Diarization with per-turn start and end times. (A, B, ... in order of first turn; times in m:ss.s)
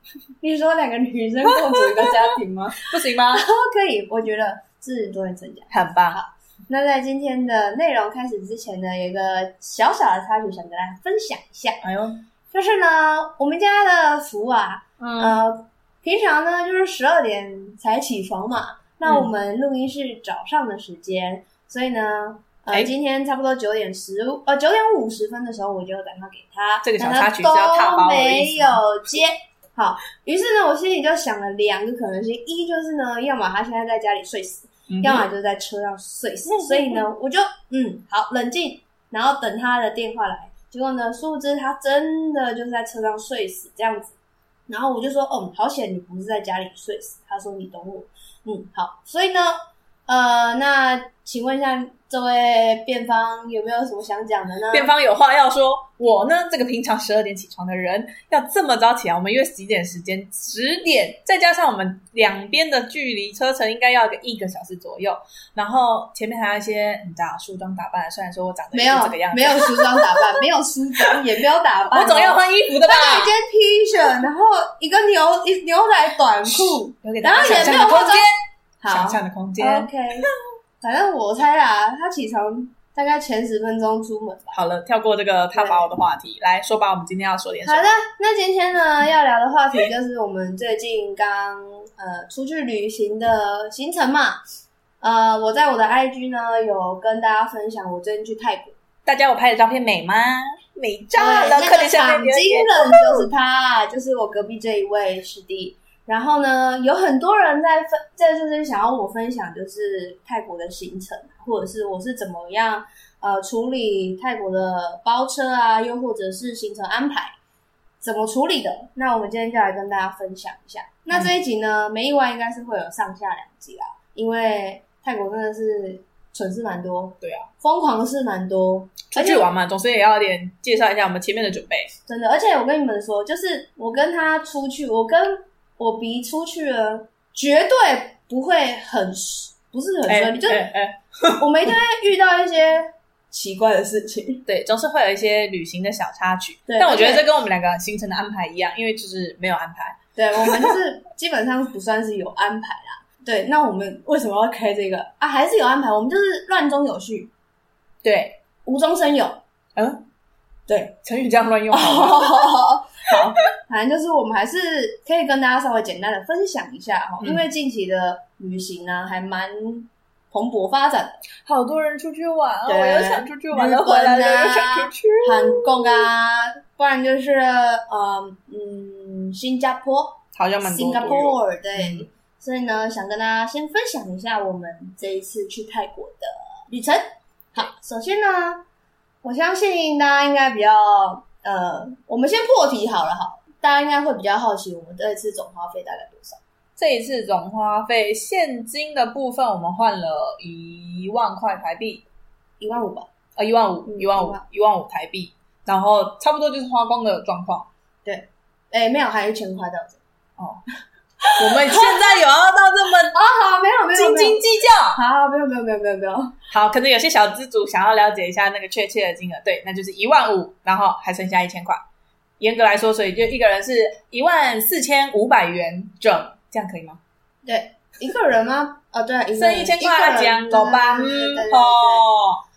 0:00.4-0:11.8 A
0:01.5-0:03.4 B
0:05.7-0:06.2 B
0:11.8-0:12.2 B
0:12.5-0:44.2 A
0:15.0-0:15.4 B
0:19.0-0:19.3 B
0:26.8-0:28.8 B
0:34.9-0:35.2 B
0:36.5-0:37.0 B
0:44.7-0:49.5 A
0:50.1-0:54.9 A
0:54.7-1:10.2 B
1:08.7-1:18.3 A
1:11.9-1:13.3 B
1:16.4-1:18.3 B
1:18.8-1:20.3 A
1:18.9-1:19.9 B
1:20.8-1:24.6 A
1:24.5-1:27.9 B
1:25.5-1:25.8 A
1:27.6-1:34.4 A
1:35.0-1:38.7 A
1:39.0-1:43.3 B
1:41.2-1:57.3 A
1:58.0-2:09.5 A
2:07.2-2:07.5 B
2:09.1-2:11.9 B
2:12.1-2:20.6 A
2:20.1-2:21.7 B
2:21.4-2:24.4 A
2:24.5-2:30.7 B
2:26.7-2:27.3 A
2:30.2-2:37.3 A
2:38.0-2:38.4 B
2:38.6-2:39.4 A
2:39.8-2:40.0 B
2:40.7-2:40.9 A
2:41.0-2:42.4 B
2:41.7-2:51.2 A
2:47.2-2:47.5 B
2:51.4-2:56.0 B
2:52.7-3:08.6 A
3:00.3-3:02.0 B
3:09.2-3:16.4 A
3:16.8-3:22.0 B
3:22.6-3:23.1 A
3:23.4-3:27.7 B
3:23.8-3:24.4 A
3:28.0-3:30.0 A
3:31.2-3:32.1 A
3:31.4-3:33.2 B
3:33.1-3:36.3 A
3:33.9-3:35.0 B
3:36.5-3:41.8 B
3:42.4-3:47.0 B
3:47.4-3:52.1 A
3:49.3-3:52.4 B